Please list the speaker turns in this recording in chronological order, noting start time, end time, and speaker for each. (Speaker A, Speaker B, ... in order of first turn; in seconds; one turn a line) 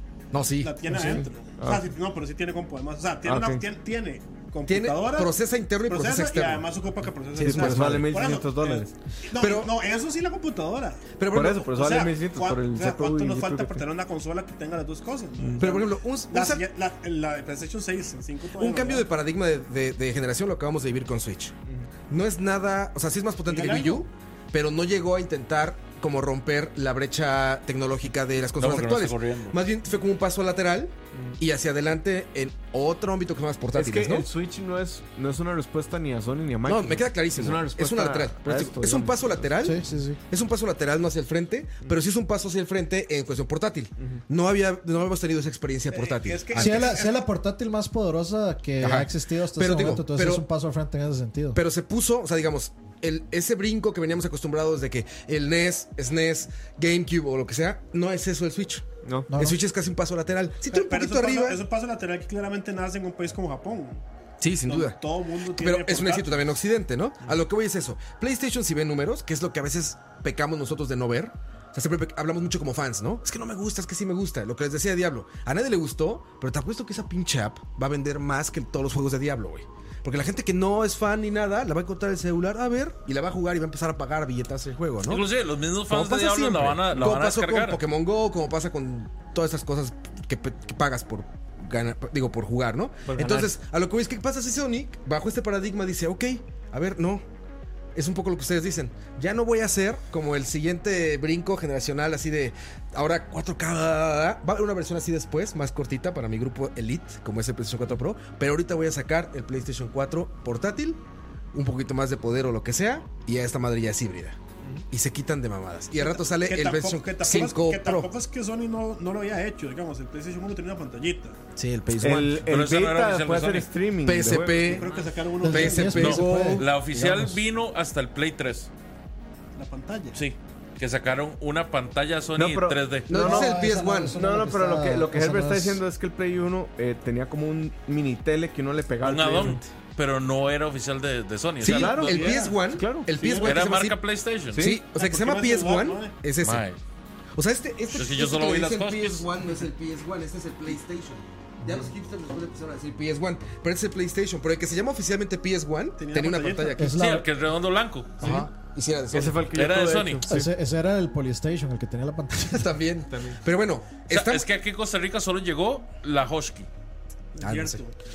Speaker A: 0.3-0.8
Speaker B: 0.6-5.3
Speaker C: 0.9-1.9
Speaker C: 3.2-3.6
Speaker A: 4.7-6.7
Speaker B: 5.9-19.1
Speaker A: 7.4-8.1
Speaker C: 7.4-8.9
Speaker A: 9.3-9.8
Speaker A: 11.2-11.8
Speaker C: 11.3-13.8
Speaker C: 15.4-15.6
Speaker A: 15.6-16.6
Speaker A: 18.6-21.5
Speaker A: 22.1-34.3
Speaker B: 23.5-24.1
Speaker D: 28.6-29.6
Speaker C: 33.8-39.5
Speaker A: 36.6-46.9
Speaker E: 39.6-40.2
Speaker B: 45.9-47.2
Speaker E: 46.5-51.6
Speaker A: 48.8-50.5
Speaker A: 51.5-61.6
Speaker C: 59.0-59.3
Speaker E: 59.3-59.6
Speaker B: 60.7-64.0
Speaker A: 64.4-65.0
Speaker B: 64.7-66.4
Speaker A: 65.5-85.3
Speaker D: 85.1-87.8
Speaker A: 85.9-97.2
Speaker C: 93.1-93.5
Speaker A: 98.0-111.0
Speaker A: 111.5-114.4
Speaker A: 114.9-118.1
Speaker B: 116.1-121.4
Speaker A: 121.6-122.5
Speaker C: 122.0-124.8
Speaker D: 122.5-123.7
Speaker A: 124.0-124.9
Speaker B: 124.6-126.2
Speaker E: 125.4-127.4
Speaker A: 125.5-126.8
Speaker D: 126.0-128.7
Speaker B: 129.6-130.2
Speaker D: 130.1-133.1
Speaker C: 132.4-133.6
Speaker A: 133.1-134.2
Speaker E: 133.1-135.8
Speaker C: 134.1-139.7
Speaker D: 139.0-142.1
Speaker A: 141.6-144.0
Speaker C: 141.6-143.1
Speaker B: 141.9-143.6
Speaker D: 143.4-144.7
Speaker C: 144.5-144.8
Speaker A: 144.6-146.6
Speaker B: 144.9-146.2
Speaker D: 146.4-146.8
Speaker A: 147.4-157.0
Speaker D: 147.9-149.2
Speaker E: 151.6-151.9
Speaker B: 156.0-156.8
Speaker E: 156.8-157.3
Speaker D: 156.8-158.4
Speaker A: 158.2-159.5
Speaker C: 159.1-160.5
Speaker D: 159.5-160.2
Speaker E: 160.3-162.7
Speaker A: 162.5-164.5
Speaker C: 163.1-163.4
Speaker D: 164.1-166.7
Speaker B: 167.3-168.0
Speaker A: 167.4-167.8